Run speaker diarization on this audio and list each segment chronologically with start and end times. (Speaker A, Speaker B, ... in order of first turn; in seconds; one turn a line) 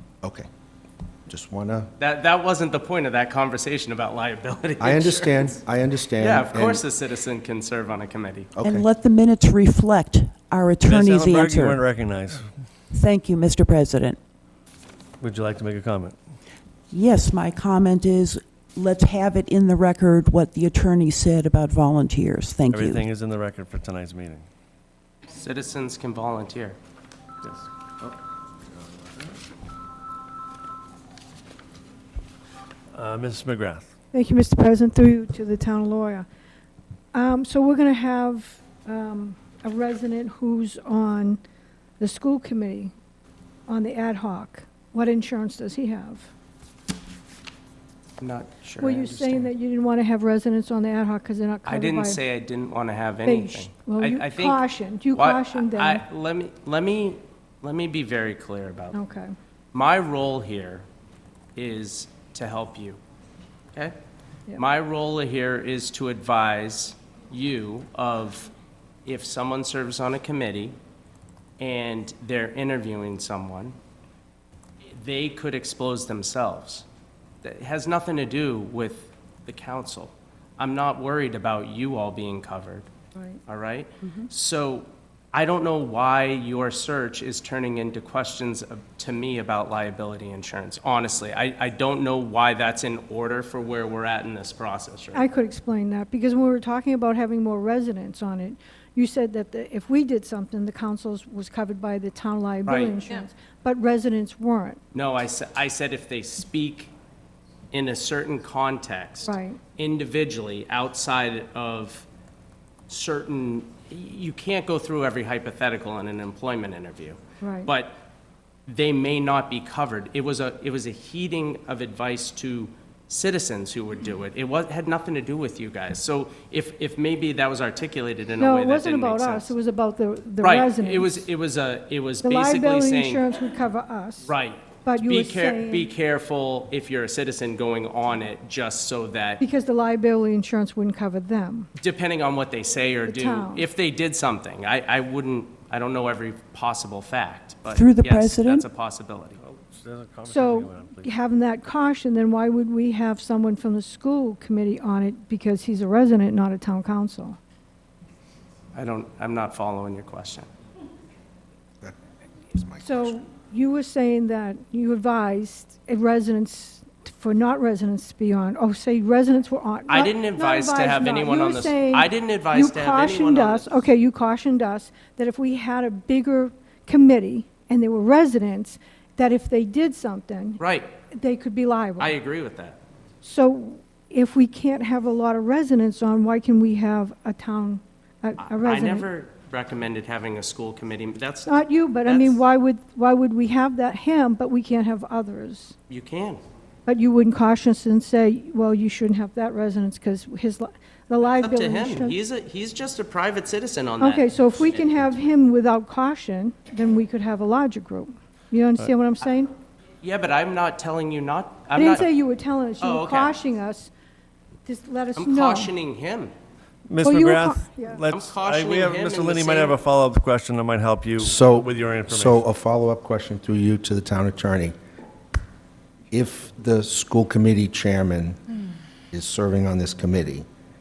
Speaker A: 1.3-1.9
Speaker B: 2.0-5.6
Speaker A: 4.8-6.8
Speaker B: 6.2-8.5
Speaker A: 8.5-8.9
Speaker C: 8.6-11.8
Speaker D: 10.8-12.5
Speaker C: 12.9-14.2
Speaker D: 15.2-16.1
Speaker C: 16.9-23.0
Speaker D: 22.7-24.4
Speaker B: 25.3-26.8
Speaker D: 27.4-28.1
Speaker D: 28.8-29.1
Speaker D: 32.9-33.9
Speaker E: 34.1-36.2
Speaker E: 37.1-41.4
Speaker E: 42.0-42.9
Speaker E: 43.7-46.3
Speaker B: 48.2-49.5
Speaker E: 48.8-52.2
Speaker B: 51.6-59.0
Speaker E: 53.2-56.0
Speaker E: 58.9-59.3
Speaker B: 59.7-60.8
Speaker B: 61.5-63.0
Speaker B: 64.6-68.5
Speaker B: 69.0-70.8
Speaker B: 71.6-73.7
Speaker B: 74.9-76.8
Speaker B: 77.4-82.9
Speaker B: 83.5-95.2
Speaker E: 95.1-104.8
Speaker B: 102.7-103.0
Speaker B: 104.9-106.9
Speaker B: 107.7-112.0
Speaker E: 109.2-109.6
Speaker B: 112.9-118.0
Speaker E: 117.4-117.7
Speaker B: 118.7-129.5
Speaker E: 128.4-131.2
Speaker B: 130.4-133.2
Speaker E: 132.2-134.3
Speaker B: 134.2-139.4
Speaker E: 134.8-135.9
Speaker E: 139.4-141.7
Speaker B: 141.8-149.4
Speaker E: 143.1-143.7
Speaker C: 147.7-148.6
Speaker D: 149.4-151.1
Speaker E: 150.2-157.4
Speaker B: 158.7-160.5
Speaker A: 162.5-163.2
Speaker E: 162.8-180.6
Speaker B: 169.9-173.7
Speaker B: 180.6-180.9
Speaker E: 181.1-182.1
Speaker B: 182.0-182.8
Speaker E: 183.2-189.1
Speaker B: 188.4-191.5
Speaker E: 191.4-195.7
Speaker B: 192.0-192.4
Speaker B: 195.9-196.4
Speaker E: 196.8-202.2
Speaker B: 201.2-205.2
Speaker E: 204.0-209.5
Speaker B: 210.0-212.1
Speaker E: 211.7-213.9
Speaker B: 212.8-213.3
Speaker E: 214.7-215.7
Speaker B: 215.2-216.3
Speaker D: 216.9-222.4
Speaker E: 217.0-218.0
Speaker B: 218.1-219.8
Speaker A: 221.2-224.7
Speaker A: 226.1-228.4
Speaker A: 229.1-230.4